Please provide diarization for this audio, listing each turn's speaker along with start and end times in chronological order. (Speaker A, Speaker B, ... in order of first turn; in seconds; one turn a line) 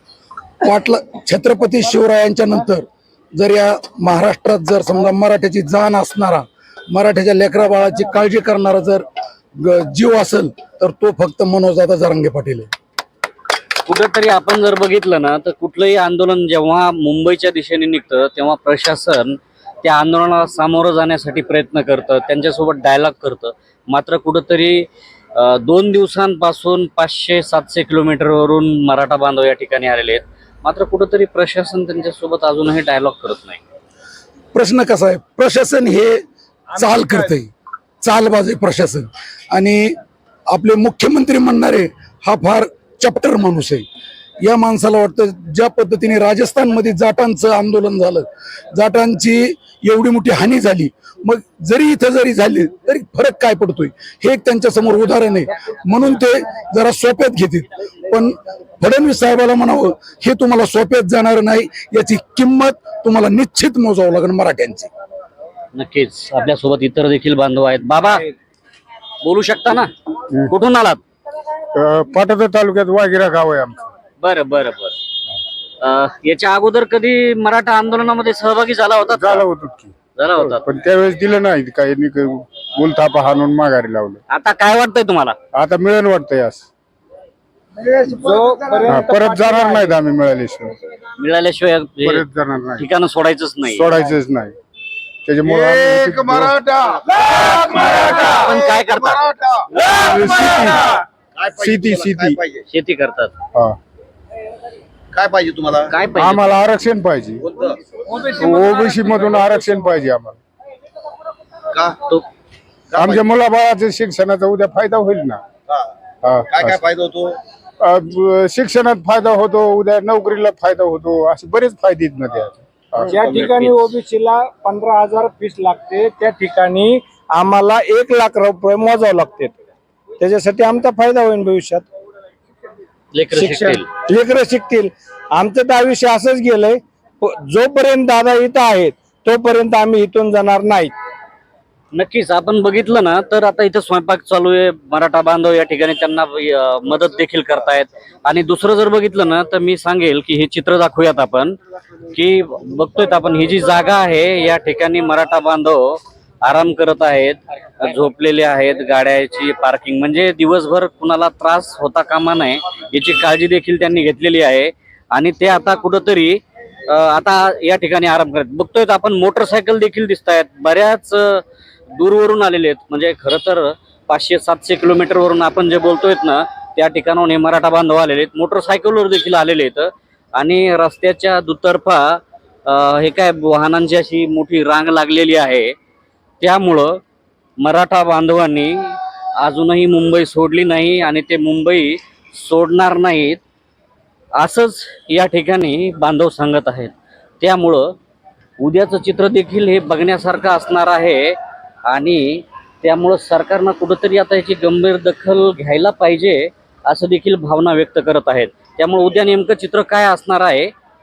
Speaker A: 0.6-9.1
Speaker A: 9.6-12.7
Speaker B: 13.8-33.6
Speaker A: 34.5-36.2
Speaker A: 36.7-37.5
Speaker A: 38.0-40.0
Speaker A: 40.5-43.9
Speaker A: 44.4-64.9
Speaker B: 65.8-68.3
Speaker B: 69.2-69.9
Speaker B: 70.5-71.0
Speaker C: 71.7-73.9
Speaker B: 74.2-75.0
Speaker B: 75.8-79.5
Speaker C: 79.1-84.2
Speaker B: 80.2-80.6
Speaker B: 84.3-85.4
Speaker C: 85.5-86.7
Speaker D: 88.0-90.0
Speaker C: 88.9-90.8
Speaker B: 91.2-92.2
Speaker C: 92.0-92.9
Speaker B: 92.8-93.9
Speaker C: 93.7-94.5
Speaker C: 95.2-96.6
Speaker E: 95.5-98.3
Speaker B: 97.7-99.3
Speaker E: 98.9-99.7
Speaker C: 100.0-100.8
Speaker E: 100.3-100.8
Speaker E: 101.3-102.6
Speaker C: 101.6-102.4
Speaker B: 102.7-103.3
Speaker E: 105.1-105.9
Speaker B: 105.8-106.5
Speaker C: 106.2-107.4
Speaker C: 108.2-110.4
Speaker E: 112.9-113.2
Speaker C: 113.0-115.4
Speaker C: 116.2-116.9
Speaker E: 116.5-117.4
Speaker C: 117.8-123.2
Speaker B: 123.0-123.9
Speaker D: 123.1-129.5
Speaker D: 130.2-131.8
Speaker B: 133.1-133.9
Speaker D: 133.3-140.9
Speaker B: 141.9-151.6
Speaker B: 152.1-171.4
Speaker B: 171.9-185.8
Speaker B: 186.4-187.0
Speaker B: 187.6-193.4
Speaker B: 194.4-197.9
Speaker B: 198.6-210.7